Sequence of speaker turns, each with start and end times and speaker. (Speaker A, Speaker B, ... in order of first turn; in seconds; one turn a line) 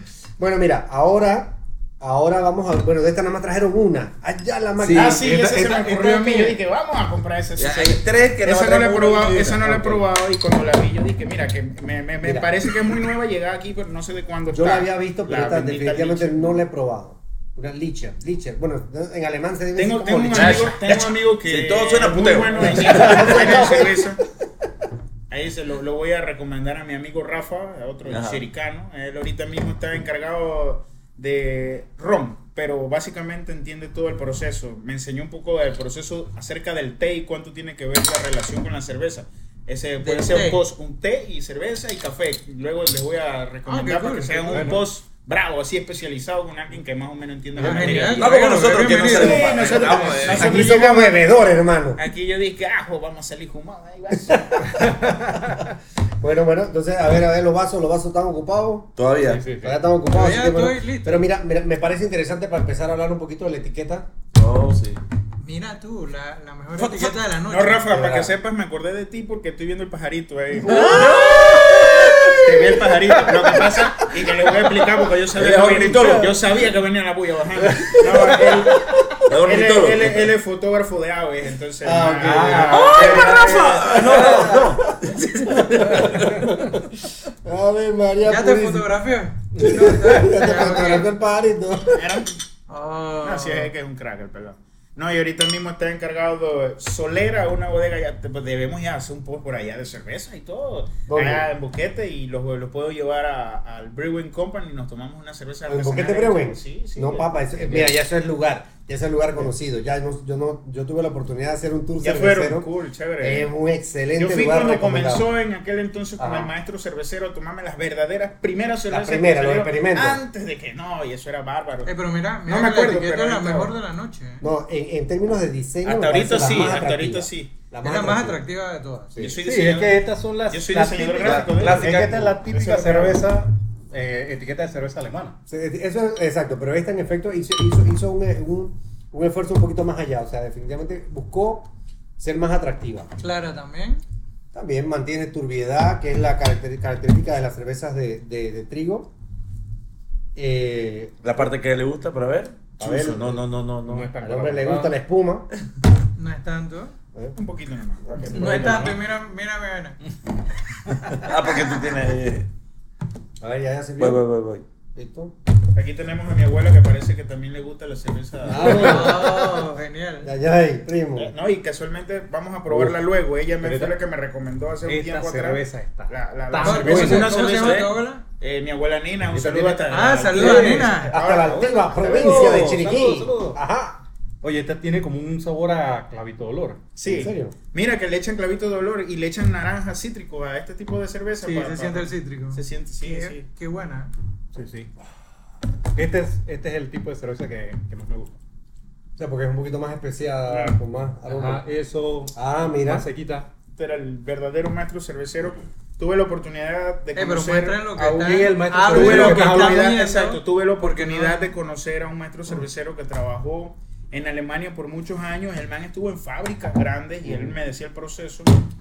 Speaker A: 0.4-5.3
Speaker B: 4.8-5.4
Speaker C: 4.9-16.6
Speaker D: 5.2-6.4
Speaker B: 7.6-10.0
Speaker A: 12.2-12.5
Speaker A: 14.5-20.7
Speaker C: 19.8-24.2
Speaker B: 20.3-23.8
Speaker A: 22.6-24.0
Speaker D: 23.2-23.6
Speaker C: 25.3-48.3
Speaker B: 28.1-28.4
Speaker E: 40.0-40.6
Speaker E: 43.6-44.7
Speaker D: 44.5-44.8
Speaker D: 47.6-48.2
Speaker E: 47.6-49.6
Speaker B: 48.1-50.6
Speaker C: 49.0-51.2
Speaker A: 49.6-52.0
Speaker C: 52.0-54.7
Speaker A: 54.3-55.1
Speaker D: 54.8-55.4
Speaker A: 56.2-58.9
Speaker B: 59.0-59.4
Speaker D: 59.2-59.8
Speaker A: 59.6-64.1
Speaker E: 60.1-61.3
Speaker B: 64.3-65.0
Speaker E: 65.4-67.9
Speaker B: 66.8-67.2
Speaker C: 67.5-71.2
Speaker A: 67.9-68.3
Speaker B: 70.6-73.6
Speaker E: 70.9-71.3
Speaker C: 72.4-83.9
Speaker B: 75.3-76.5
Speaker D: 77.7-78.1
Speaker B: 79.2-80.2
Speaker A: 81.8-86.8
Speaker D: 82.2-83.5
Speaker B: 82.7-86.5
Speaker A: 87.4-88.9
Speaker E: 88.2-91.1
Speaker A: 89.6-92.2
Speaker C: 91.9-92.4
Speaker E: 92.7-93.7
Speaker C: 93.2-107.9
Speaker A: 101.1-101.5
Speaker A: 105.7-112.7
Speaker C: 112.0-113.5
Speaker A: 113.2-115.3
Speaker C: 114.2-121.9
Speaker A: 116.2-116.5
Speaker A: 118.9-120.2
Speaker E: 121.8-124.4
Speaker C: 122.5-123.7
Speaker A: 124.4-128.4
Speaker C: 125.8-127.5
Speaker E: 127.8-129.2
Speaker C: 129.2-133.2
Speaker D: 129.4-135.4
Speaker B: 131.2-132.2
Speaker A: 135.5-143.1
Speaker E: 143.2-144.0
Speaker A: 144.5-149.1
Speaker A: 150.3-151.2
Speaker B: 151.2-154.1
Speaker A: 152.8-153.4
Speaker D: 153.8-155.0
Speaker A: 154.2-155.5
Speaker E: 156.2-156.9
Speaker C: 157.3-158.9
Speaker E: 158.3-160.0
Speaker D: 158.4-158.9
Speaker B: 161.1-162.5
Speaker A: 163.4-164.2
Speaker B: 164.0-164.6
Speaker A: 164.9-165.3
Speaker C: 165.7-169.1
Speaker A: 168.4-169.7
Speaker E: 168.5-170.3
Speaker A: 170.2-171.3
Speaker C: 171.2-182.8
Speaker D: 173.6-173.9
Speaker D: 174.8-177.3
Speaker E: 176.6-178.2
Speaker E: 179.9-181.1
Speaker D: 180.3-183.6
Speaker A: 181.1-184.0
Speaker D: 184.4-186.8
Speaker C: 186.9-193.4
Speaker A: 187.1-187.5
Speaker E: 191.4-194.1
Speaker D: 194.5-194.9
Speaker D: 195.9-198.4
Speaker A: 199.2-201.6
Speaker C: 200.5-200.8
Speaker D: 201.2-203.5
Speaker A: 202.3-203.1
Speaker C: 203.7-207.8
Speaker E: 207.1-211.5
Speaker D: 207.9-209.9
Speaker C: 208.8-218.7
Speaker A: 217.2-217.6